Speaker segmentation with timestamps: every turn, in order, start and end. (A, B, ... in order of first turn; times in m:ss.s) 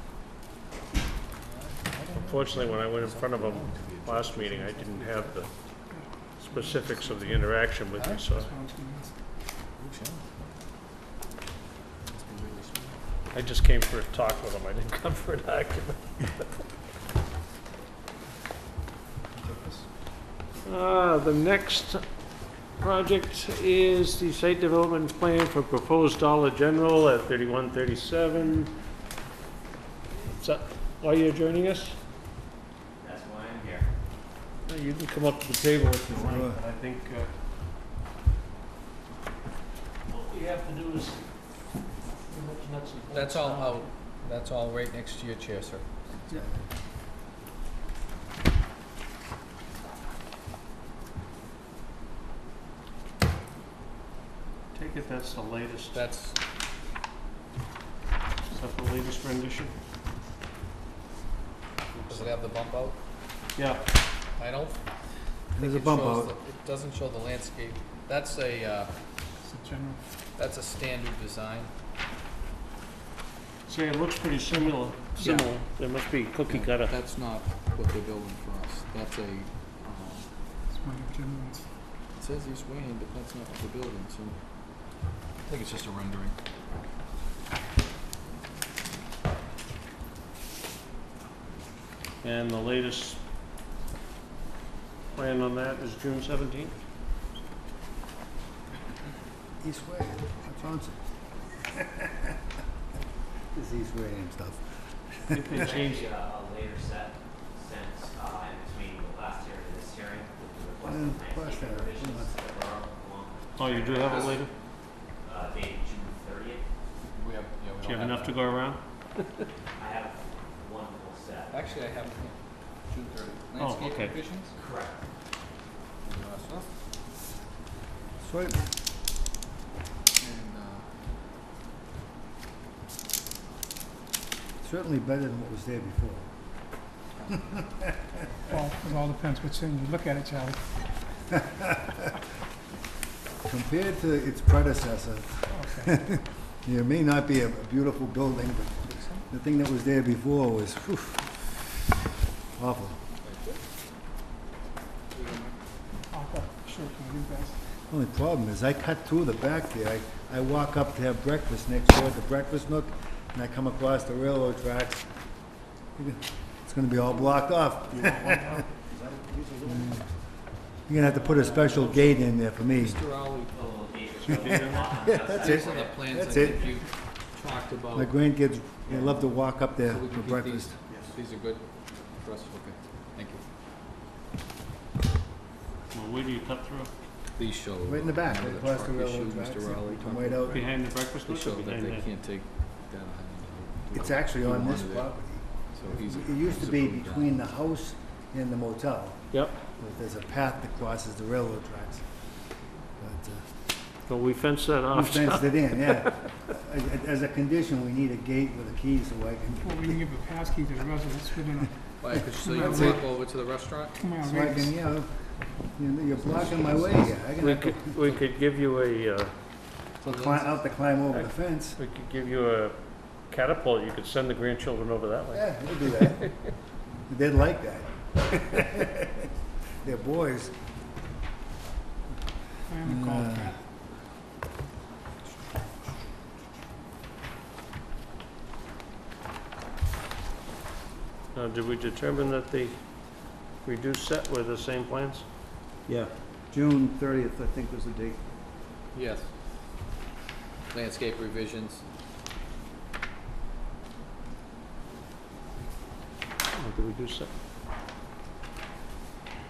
0:01.4-0:05.4 A
0:02.1-0:05.5 B
0:05.9-0:09.1 C
0:06.4-0:08.5 B
0:09.8-0:10.2 A
0:12.1-0:13.0 A
0:13.3-0:16.4 B
0:19.3-0:19.9 A
0:20.6-0:22.0 B
0:22.8-0:28.7 B
0:30.1-0:32.0 B
0:33.0-0:33.9 D
0:34.7-0:37.3 B
0:36.1-0:36.6 E
0:40.1-0:41.3 B
0:42.3-0:43.8 B
0:43.1-0:45.9 A
0:46.3-0:46.6 E
0:54.7-0:56.0 B
0:55.9-0:56.4 A
0:58.5-0:59.7 B
1:02.0-1:03.0 A
1:02.1-1:02.3 B
1:03.6-1:03.8 B
1:04.4-1:04.8 A
1:05.5-1:06.3 E
1:05.6-1:08.9 A
1:09.4-1:10.0 C
1:10.4-1:11.7 A
1:13.7-1:16.9 B
1:15.2-1:15.5 A
1:16.5-1:20.3 A
1:20.7-1:21.6 C
1:22.2-1:24.4 A
1:25.4-1:26.4 A
1:32.2-1:33.2 B
1:35.1-1:36.7 B
1:39.6-1:41.0 E
1:41.8-1:42.1 E
1:43.5-1:45.7 E
1:45.3-1:46.1 B
1:45.6-1:54.5 D
1:50.8-1:52.3 E
1:53.6-1:54.5 B
1:55.2-1:56.7 D
1:57.1-1:58.4 A
1:57.8-1:59.2 B
1:59.8-2:01.6 D
2:01.5-2:04.6 A
2:03.6-2:04.2 B
2:04.5-2:05.0 D
2:06.0-2:06.7 A
2:08.2-2:08.7 E
2:10.2-2:10.8 A
2:14.6-2:16.3 E
2:18.5-2:20.6 C
2:23.4-2:31.3 E
2:25.5-2:26.0 C
2:28.9-2:29.2 A
2:32.6-2:33.0 E
2:33.2-2:33.6 A
2:35.1-2:35.6 A
2:36.1-2:37.6 C
2:37.9-2:45.0 E
2:46.0-2:48.6 E
2:48.0-2:48.6 B
2:49.6-2:50.0 E
2:50.9-2:53.0 E
2:50.9-2:53.6 A
2:53.5-2:56.4 D
2:54.2-2:54.9 B
2:54.3-2:56.8 E
2:55.2-2:58.2 A
2:57.9-3:00.8 E
2:58.9-2:59.2 A
2:59.8-3:03.4 A
3:05.9-3:06.9 B
3:07.4-3:10.7 A
3:07.8-3:10.6 E
3:10.5-3:12.1 B
3:11.2-3:15.1 A
3:13.9-3:19.2 E
3:15.7-3:17.4 A
3:19.3-3:19.6 B
3:19.8-3:22.0 E
3:23.0-3:23.4 E
3:24.1-3:26.1 B
3:24.9-3:30.0 E
3:29.6-3:31.7 C
3:32.0-3:34.0 A
3:32.4-3:33.0 C
3:32.6-3:32.9 E
3:34.0-3:34.7 C
3:34.2-3:35.1 E
3:35.8-3:38.0 E
3:36.1-3:37.2 A
3:37.4-3:39.3 B
3:40.0-3:40.6 A
3:40.0-3:41.8 E
3:41.1-3:42.8 B
3:43.3-3:45.5 B
3:45.3-3:46.3 E
3:47.1-3:49.3 E
3:49.8-3:50.5 E
3:52.7-3:53.6 C
3:52.8-3:53.5 E
4:01.3-4:02.8 B
4:03.6-4:05.2 B
4:05.9-4:08.2 F
4:08.9-4:09.3 A
4:10.7-4:11.8 A
4:16.6-4:17.3 B